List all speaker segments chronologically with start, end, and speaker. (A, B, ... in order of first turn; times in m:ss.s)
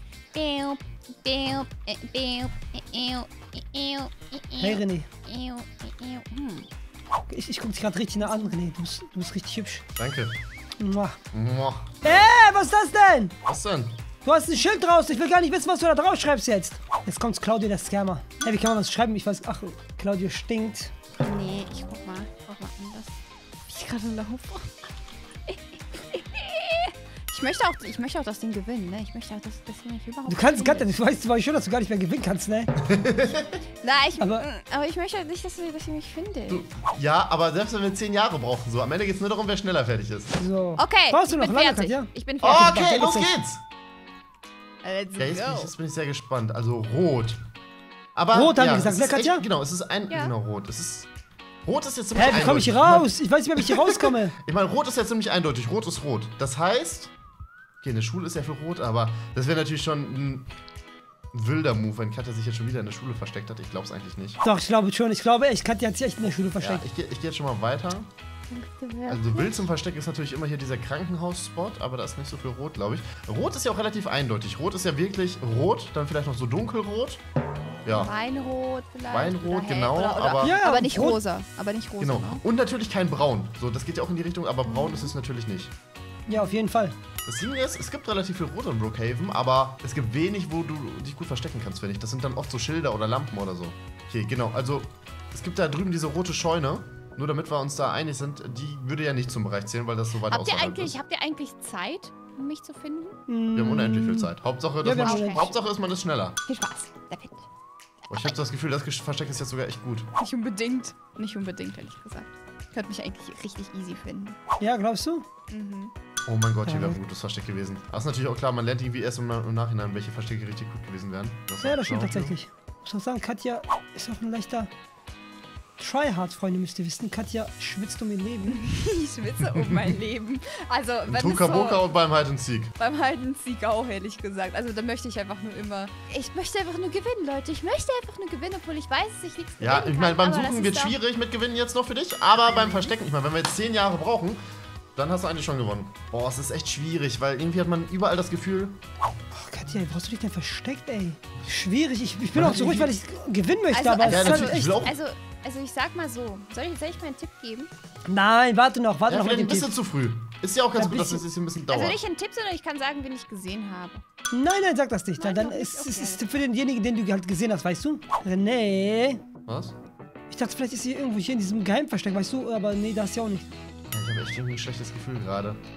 0:00.3-0:06.7 A
0:04.6-0:05.1 B
0:07.3-0:09.8 B
0:08.2-0:08.5 A
0:10.0-0:10.3 C
0:10.8-0:11.2 B
0:11.3-0:11.8 C
0:12.0-0:13.3 B
0:13.5-0:13.9 C
0:14.2-0:20.9 B
0:21.2-0:23.2 A
0:23.7-0:24.7 A
0:25.5-0:30.9 A
0:30.3-0:32.7 B
0:32.8-0:33.6 C
0:33.8-0:36.6 A
0:34.2-0:34.5 B
0:36.5-0:40.4 C
0:40.4-0:43.3 B
0:40.8-0:42.8 A
0:42.4-0:43.6 C
0:44.8-0:45.7 A
0:45.2-0:47.4 C
0:48.2-0:51.1 C
0:48.3-0:49.5 B
0:50.1-0:50.3 A
0:51.6-0:57.1 C
0:52.2-0:54.3 B
0:57.8-1:00.5 C
1:01.3-1:04.4 C
1:04.4-1:06.8 B
1:06.6-1:08.1 C
1:08.5-1:09.7 A
1:09.1-1:17.2 C
1:17.9-1:18.1 C
1:17.9-1:22.4 A
1:19.1-1:20.6 C
1:20.4-1:21.2 B
1:22.0-1:25.7 C
1:24.7-1:25.1 A
1:26.3-1:27.0 B
1:26.3-1:26.6 A
1:27.3-1:41.0 C
1:40.3-1:43.2 A
1:43.3-1:44.3 B
1:43.6-1:46.4 C
1:44.8-1:45.4 B
1:44.9-1:45.6 A
1:46.5-1:47.4 A
1:48.1-1:50.1 C
1:50.2-1:54.4 A
1:54.6-1:55.2 B
1:55.5-1:55.9 A
1:56.3-2:02.4 C
1:56.6-1:57.0 B
2:01.6-2:04.7 B
2:05.8-2:08.6 B
2:08.5-2:11.9 A
2:09.4-2:09.9 C
2:11.1-2:12.7 C
2:12.8-2:21.0 A
2:19.6-2:24.4 C
2:25.0-2:28.8 C
2:29.4-2:34.8 B
2:32.3-2:32.9 C
2:33.7-2:37.7 A
2:34.0-2:35.0 C
2:38.1-2:39.7 B
2:39.1-2:42.0 C
2:40.8-2:41.2 B
2:41.7-2:44.0 A
2:44.3-2:49.2 B
2:45.2-2:46.2 A
2:49.5-2:49.7 C
2:50.3-2:53.5 B
2:53.9-2:55.6 C